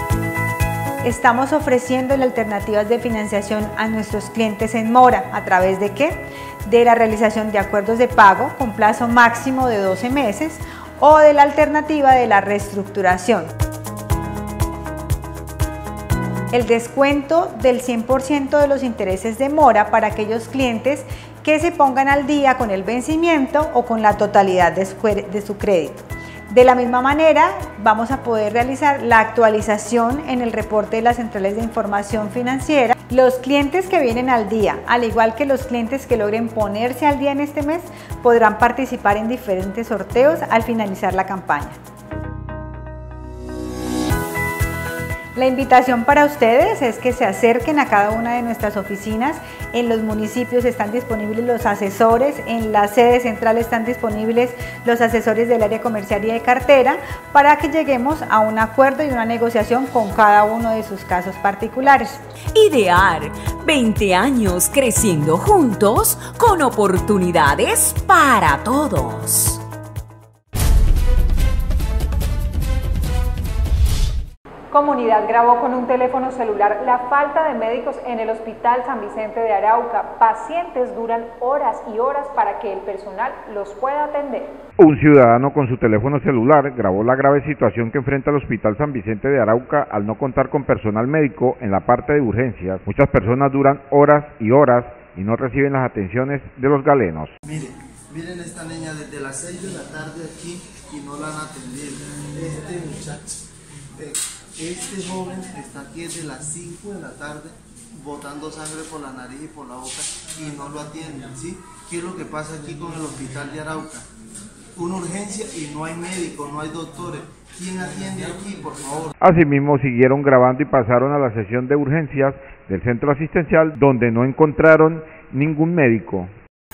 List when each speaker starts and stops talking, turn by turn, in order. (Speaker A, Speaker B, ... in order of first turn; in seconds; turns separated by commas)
Speaker A: 1.0-13.5, Speaker A: 16.5-41.8, Speaker A: 45.4-62.2, Speaker B: 62.5-69.6, Speaker C: 74.7-84.5, Speaker D: 84.8-97.3, Speaker E: 97.4-103.4, Speaker E: 104.0-114.0, Speaker E: 114.8-119.1, Speaker D: 119.2-126.3